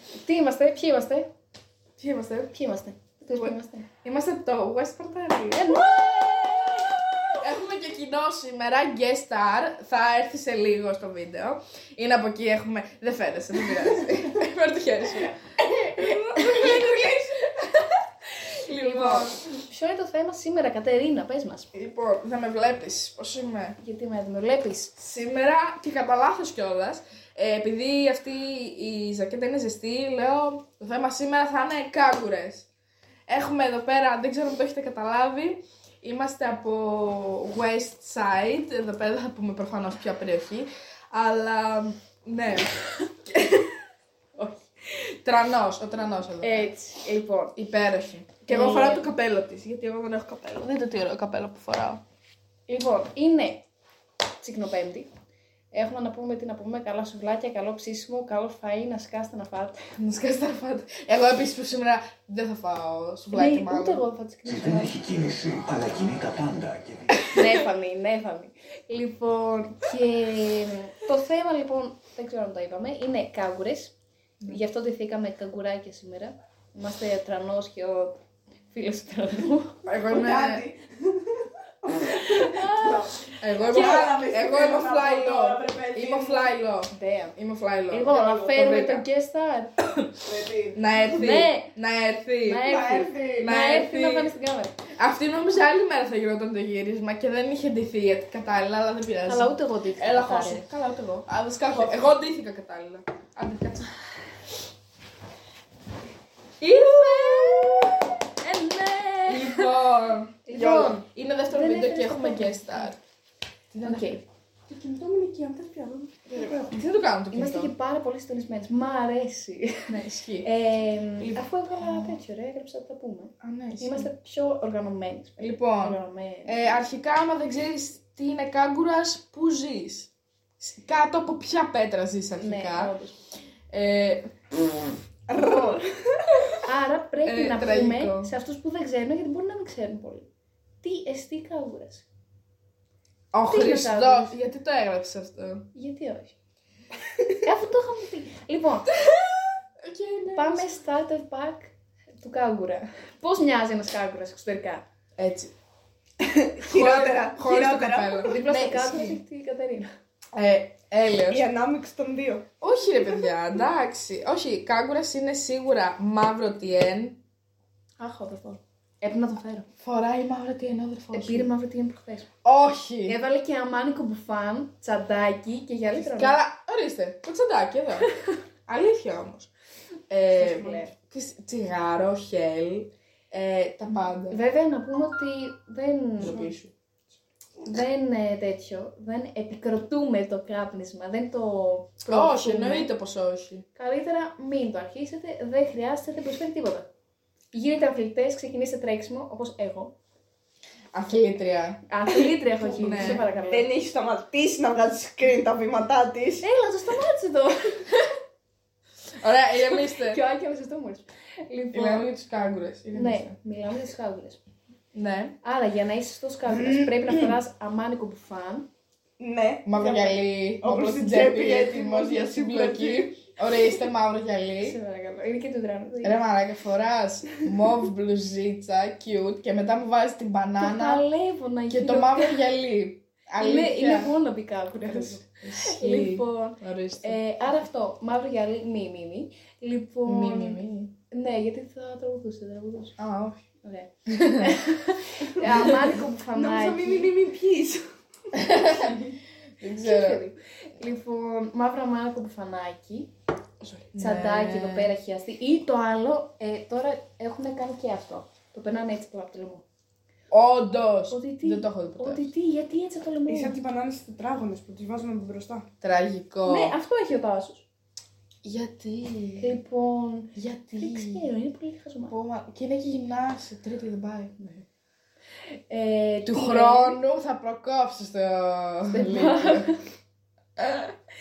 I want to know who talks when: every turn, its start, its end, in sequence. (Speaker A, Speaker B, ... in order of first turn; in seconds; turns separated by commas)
Speaker A: 0.2-1.3, Speaker B: 2.0-2.5, Speaker A: 2.5-3.9, Speaker B: 3.4-5.9, Speaker A: 5.5-7.0, Speaker B: 7.4-19.4, Speaker C: 16.0-16.8, Speaker A: 18.7-21.7, Speaker B: 21.7-23.8, Speaker A: 23.8-24.9, Speaker B: 25.0-32.7, Speaker B: 33.3-42.7, Speaker B: 43.3-43.7, Speaker B: 45.0-46.7, Speaker A: 46.4-47.5, Speaker B: 47.5-52.0, Speaker A: 48.5-49.1, Speaker A: 52.7-53.6, Speaker A: 54.4-55.1, Speaker A: 55.7-59.8, Speaker B: 60.0-64.0, Speaker A: 63.3-65.3, Speaker D: 64.5-67.1, Speaker A: 67.2-73.9, Speaker A: 74.5-79.8, Speaker B: 79.8-80.6, Speaker C: 80.1-86.5, Speaker A: 82.3-83.2, Speaker B: 83.4-89.0, Speaker A: 86.9-87.3, Speaker A: 87.9-89.7, Speaker C: 90.2-91.3, Speaker B: 90.7-92.7, Speaker A: 91.1-91.7, Speaker A: 92.4-94.8, Speaker C: 92.6-93.5, Speaker B: 93.4-94.3, Speaker B: 95.0-103.9, Speaker A: 99.2-100.7, Speaker B: 106.6-108.0, Speaker A: 106.6-109.7, Speaker B: 109.3-110.4, Speaker A: 110.5-112.9, Speaker C: 110.5-111.0, Speaker B: 111.0-113.0, Speaker B: 113.7-114.2, Speaker A: 113.8-114.2, Speaker C: 114.7-116.7, Speaker B: 116.3-117.7, Speaker A: 117.3-119.9, Speaker B: 119.9-120.5, Speaker A: 120.4-126.7, Speaker B: 121.2-122.2, Speaker B: 123.4-124.1, Speaker B: 125.4-132.9, Speaker A: 132.4-133.2, Speaker B: 133.7-134.3, Speaker C: 135.3-136.5, Speaker A: 136.7-140.3, Speaker B: 137.2-138.3, Speaker A: 140.8-142.1, Speaker B: 143.3-145.7, Speaker A: 143.5-144.4, Speaker A: 145.8-146.3, Speaker A: 147.4-148.9, Speaker B: 149.1-150.7, Speaker A: 150.3-154.8, Speaker B: 155.2-155.5, Speaker C: 156.2-158.4, Speaker B: 156.7-159.2, Speaker A: 158.3-159.9, Speaker B: 160.3-161.4, Speaker C: 161.3-162.5, Speaker B: 162.6-167.2, Speaker A: 168.0-169.7, Speaker B: 169.8-171.5, Speaker A: 171.1-172.3, Speaker B: 172.4-173.2, Speaker A: 173.1-176.4, Speaker B: 175.9-178.1, Speaker B: 178.7-179.5, Speaker B: 180.1-184.4, Speaker A: 180.3-180.9, Speaker A: 183.9-186.5, Speaker B: 186.2-186.7, Speaker A: 187.6-192.9, Speaker B: 192.1-193.7, Speaker A: 193.8-196.9, Speaker A: 197.5-199.9, Speaker B: 200.9-201.8, Speaker A: 201.9-203.7, Speaker B: 202.6-203.2, Speaker C: 202.9-206.5, Speaker A: 206.4-207.9, Speaker B: 209.2-210.2, Speaker A: 209.6-212.1, Speaker B: 211.7-213.3, Speaker A: 212.9-214.4, Speaker B: 214.9-215.4, Speaker A: 215.4-218.7, Speaker C: 216.5-217.4, Speaker C: 219.2-223.1, Speaker B: 219.7-224.8, Speaker A: 224.6-226.2, Speaker B: 226.0-231.0, Speaker A: 230.6-232.4, Speaker B: 231.7-234.2, Speaker A: 233.4-243.0, Speaker B: 234.8-237.2, Speaker B: 240.1-240.9, Speaker B: 243.0-243.4, Speaker A: 243.6-247.1, Speaker B: 244.1-244.5, Speaker C: 245.4-247.9, Speaker B: 248.3-248.9, Speaker B: 249.6-250.2, Speaker A: 249.8-253.1, Speaker B: 253.7-254.9, Speaker A: 254.0-259.6, Speaker B: 260.3-262.3, Speaker A: 261.1-263.6, Speaker C: 263.3-265.7, Speaker B: 265.8-266.8, Speaker A: 266.4-267.6, Speaker B: 268.4-269.5, Speaker A: 269.4-272.1, Speaker B: 270.3-271.3, Speaker B: 272.1-274.5, Speaker A: 275.4-277.0, Speaker B: 276.2-279.7, Speaker A: 278.9-279.8, Speaker B: 280.6-280.9